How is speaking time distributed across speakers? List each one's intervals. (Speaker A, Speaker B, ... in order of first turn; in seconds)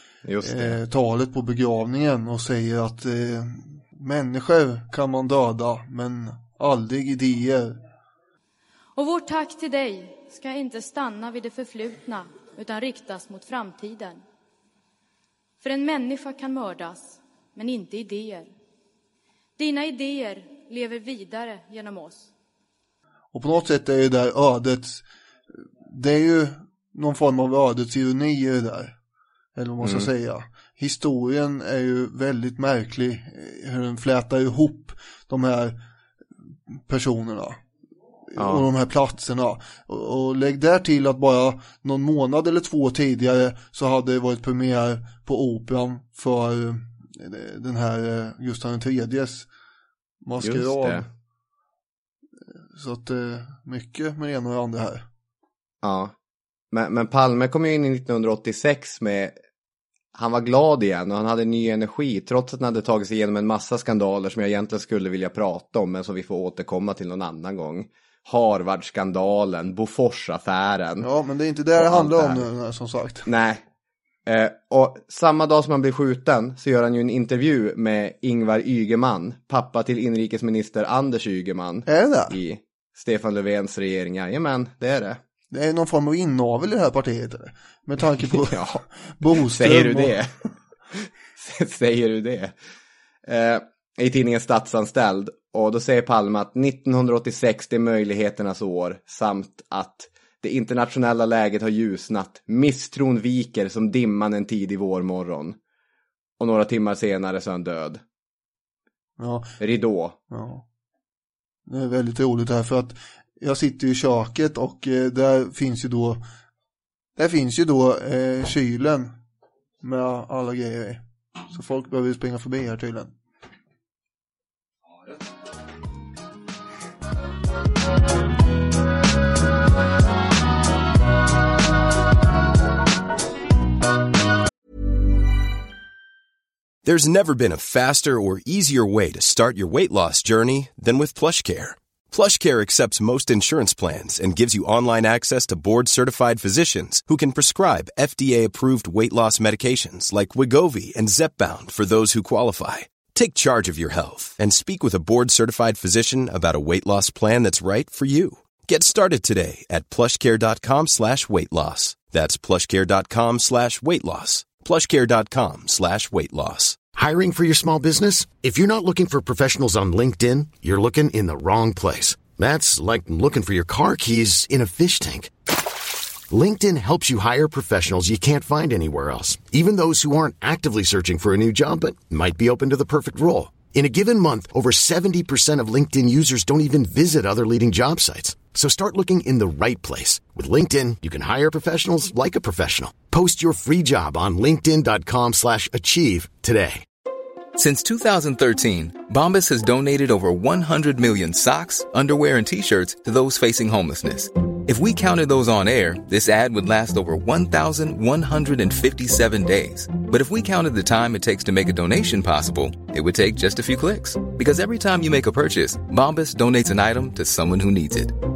Speaker A: 0.2-0.8, 29.8-30.1, 38.4-38.6, 50.4-51.0, 55.8-56.1, 56.7-59.3, 60.1-71.1, 71.8-72.5, 73.2-73.6, 74.2-85.2, 88.3-88.8, 89.5-90.3, 91.0-92.5, 93.2-105.6, 106.4-108.0, 109.6-110.2
Speaker B: 0.4-7.8, 23.3-25.0, 25.9-28.9, 29.5-35.8, 36.9-37.6, 38.3-49.5, 50.2-51.0, 52.7-55.0, 71.0-73.2, 81.8-82.3, 85.5-88.5, 89.1-90.2, 109.2-109.5, 110.3-110.6, 111.7-116.2, 117.2-119.1, 119.8-123.1
Speaker C: 8.9-14.2, 15.6-18.5, 19.6-22.3
Speaker D: 136.8-166.8
Speaker E: 166.9-175.3, 176.3-196.8
Speaker F: 197.6-218.1